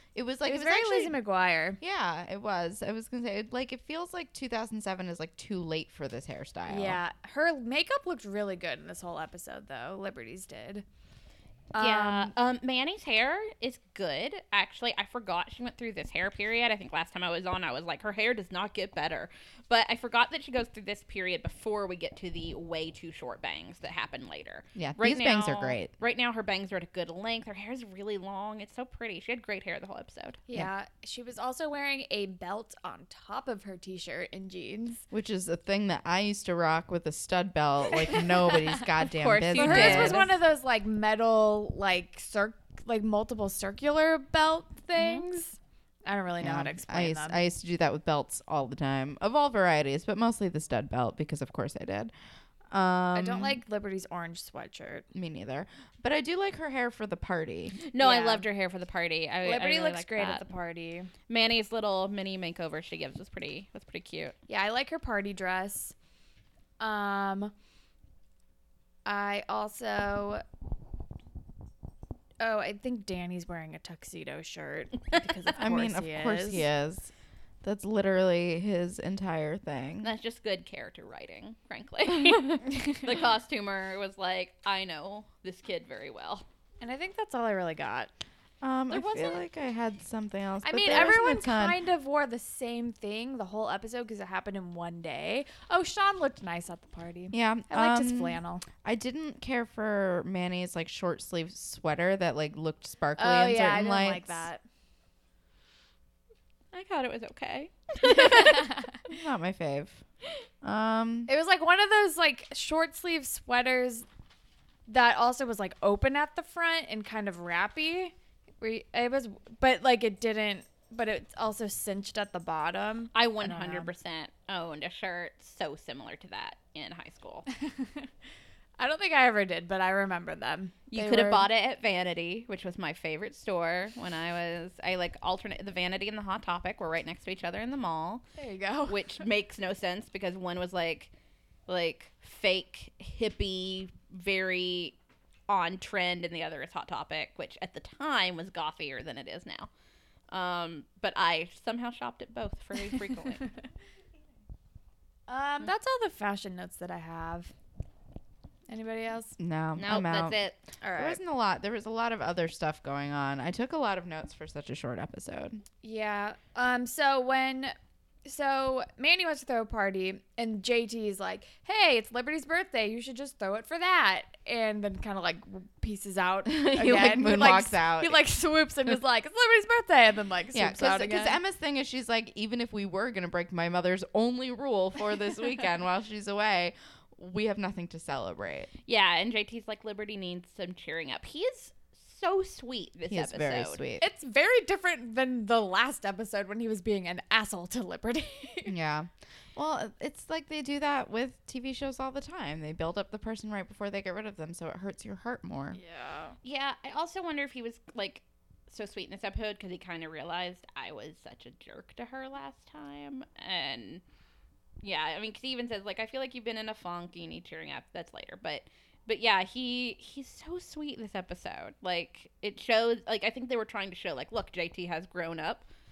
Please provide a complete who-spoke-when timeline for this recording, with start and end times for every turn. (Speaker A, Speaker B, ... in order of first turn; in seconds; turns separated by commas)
Speaker A: 0.1-1.2, Speaker B: 0.4-1.8, Speaker A: 1.8-7.0, Speaker B: 6.7-10.8, Speaker B: 11.7-12.3, Speaker C: 11.8-30.4, Speaker A: 24.8-25.9, Speaker B: 30.5-35.0, Speaker A: 35.1-40.4, Speaker C: 39.0-40.3, Speaker B: 39.6-47.4, Speaker A: 46.4-52.1, Speaker A: 52.7-53.6, Speaker B: 53.1-55.1, Speaker A: 55.1-57.8, Speaker C: 57.8-60.4, Speaker B: 58.0-58.5, Speaker B: 59.4-61.1, Speaker C: 61.3-64.4, Speaker B: 64.5-66.0, Speaker B: 66.8-67.5, Speaker B: 69.1-70.4, Speaker B: 72.4-76.7, Speaker A: 75.6-77.1, Speaker A: 77.6-80.1, Speaker C: 80.0-86.5, Speaker B: 86.8-88.1, Speaker A: 88.6-91.8, Speaker B: 88.9-89.4, Speaker B: 90.6-98.7, Speaker A: 97.3-104.5, Speaker B: 103.2-104.6, Speaker C: 106.7-108.8, Speaker B: 108.0-109.0, Speaker A: 109.1-110.0, Speaker A: 110.6-111.3, Speaker B: 111.3-114.1, Speaker B: 114.9-123.9, Speaker C: 123.2-127.5, Speaker B: 127.8-128.1, Speaker B: 128.8-131.5, Speaker C: 130.9-138.2, Speaker B: 138.4-139.0, Speaker C: 138.9-141.1, Speaker C: 141.7-144.9, Speaker C: 145.5-149.7, Speaker C: 150.3-153.5, Speaker B: 155.3-157.5, Speaker B: 158.7-159.4, Speaker A: 159.4-160.4, Speaker C: 159.8-160.6, Speaker B: 160.8-161.2, Speaker A: 161.0-165.6, Speaker B: 165.8-167.7, Speaker B: 168.2-181.4, Speaker A: 176.5-178.2, Speaker A: 180.5-188.7, Speaker C: 188.9-193.8, Speaker A: 193.1-194.0, Speaker B: 194.0-198.7, Speaker A: 198.7-205.8, Speaker B: 205.7-206.4, Speaker C: 206.4-214.0, Speaker C: 214.8-225.7